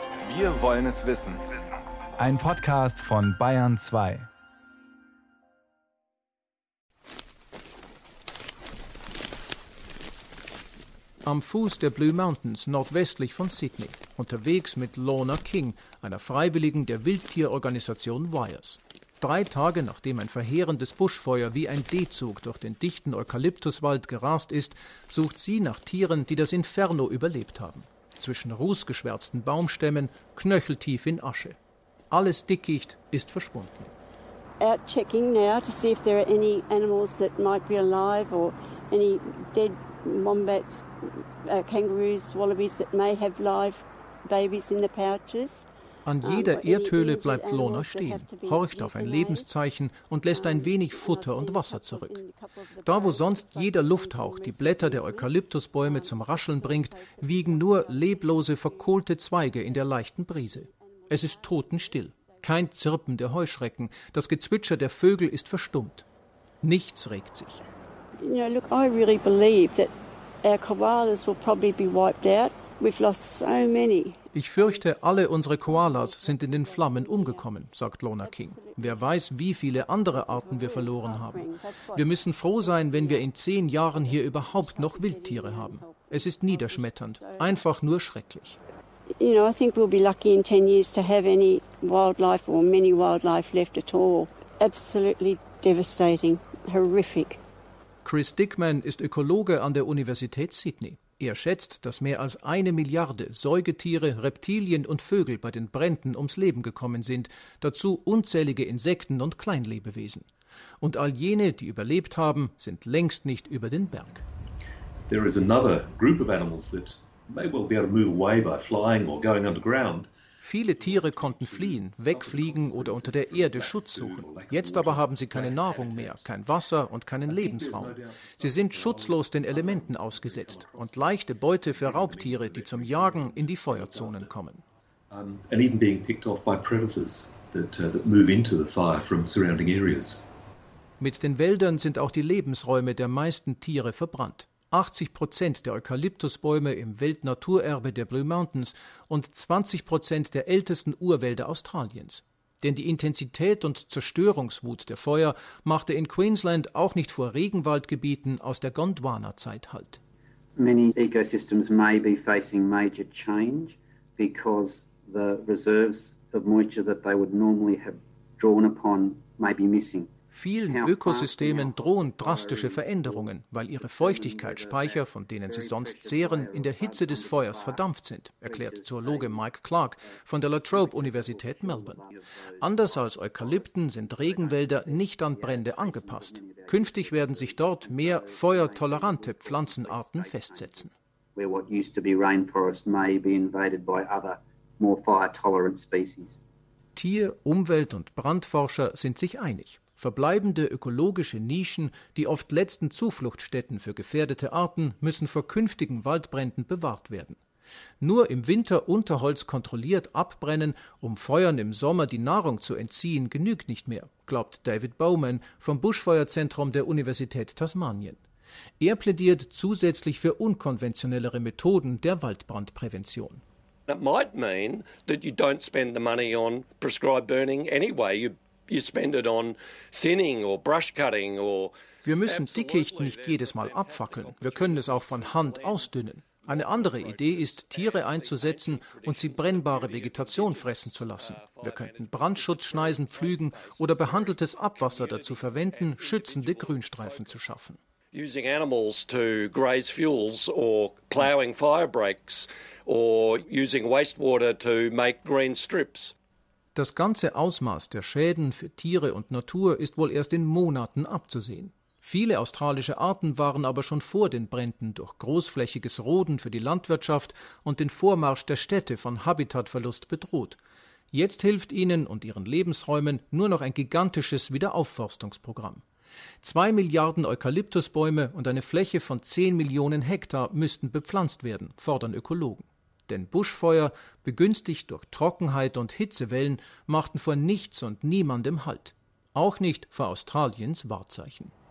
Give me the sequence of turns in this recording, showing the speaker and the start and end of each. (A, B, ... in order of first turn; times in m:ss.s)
0:00.2-0:01.4 A
0:02.2-0:04.2 A
0:11.2-0:31.6 B
0:32.1-0:33.9 B
0:34.6-0:45.6 C
0:46.0-0:52.2 B
0:46.2-0:49.5 C
0:50.3-1:02.5 C
0:52.8-1:06.0 B
1:06.6-1:07.6 B
1:08.2-1:09.9 C
1:10.4-1:17.6 C
1:14.3-1:28.6 B
1:18.2-1:19.1 C
1:19.8-1:23.4 C
1:23.9-1:27.6 C
1:29.2-1:37.4 C
1:38.0-1:50.2 B
1:50.8-1:54.2 B
1:55.1-2:00.1 D
2:00.4-2:14.6 B
2:00.7-2:06.3 D
2:07.3-2:11.1 D
2:11.6-2:14.3 D
2:15.1-2:20.2 D
2:21.0-2:40.0 B
2:40.6-2:50.1 E
2:50.3-3:02.0 B
2:50.7-2:57.8 E
2:58.4-2:59.5 E
3:00.0-3:16.4 E
3:02.6-3:10.9 B
3:17.0-3:27.4 B
3:28.0-3:38.2 B
3:38.8-3:43.4 B
3:43.9-4:07.4 F
3:52.0-4:07.8 B
4:08.1-4:16.1 F
4:16.7-4:30.6 B
4:31.1-4:35.8 B
4:36.4-4:51.5 B